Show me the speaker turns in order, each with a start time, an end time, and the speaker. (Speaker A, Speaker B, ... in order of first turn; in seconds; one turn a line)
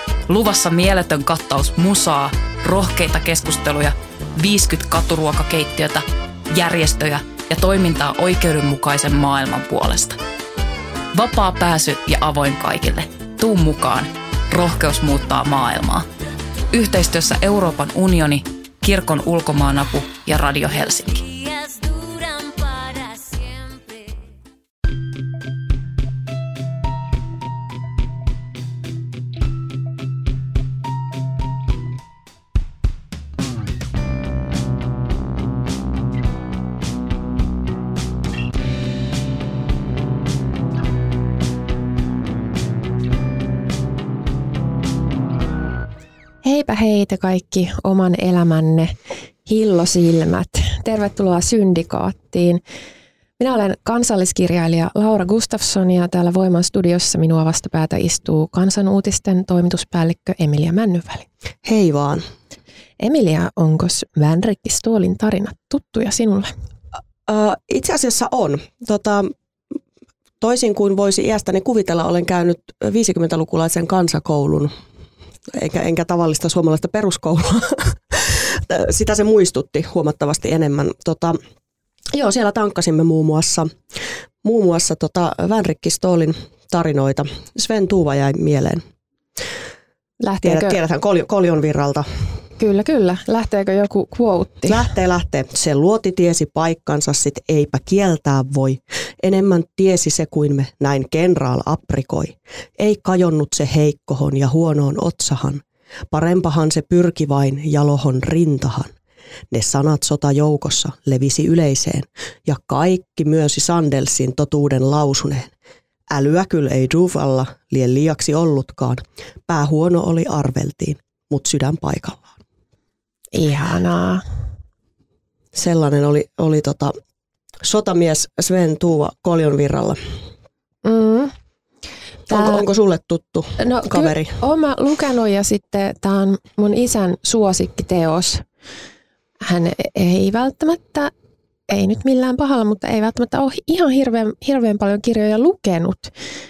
Speaker A: 0.3-10.2
Speaker A: 11.1-16.1
Speaker A: 16.7-23.9
Speaker B: 46.4-52.6
Speaker B: 53.4-61.3
Speaker C: 61.6-62.2
Speaker B: 63.0-66.5
Speaker C: 67.2-69.3
Speaker C: 70.4-74.7
Speaker C: 75.5-81.4
Speaker C: 82.1-88.8
Speaker B: 90.2-90.8
Speaker C: 90.4-92.1
Speaker B: 92.6-94.9
Speaker C: 94.7-108.9
Speaker C: 109.5-115.5
Speaker C: 116.1-122.3
Speaker B: 123.3-124.2
Speaker C: 125.5-126.9
Speaker C: 127.6-130.0
Speaker B: 130.8-131.3
Speaker C: 132.3-134.3
Speaker B: 132.3-132.6
Speaker B: 133.6-138.4
Speaker B: 139.4-141.1
Speaker B: 141.7-146.1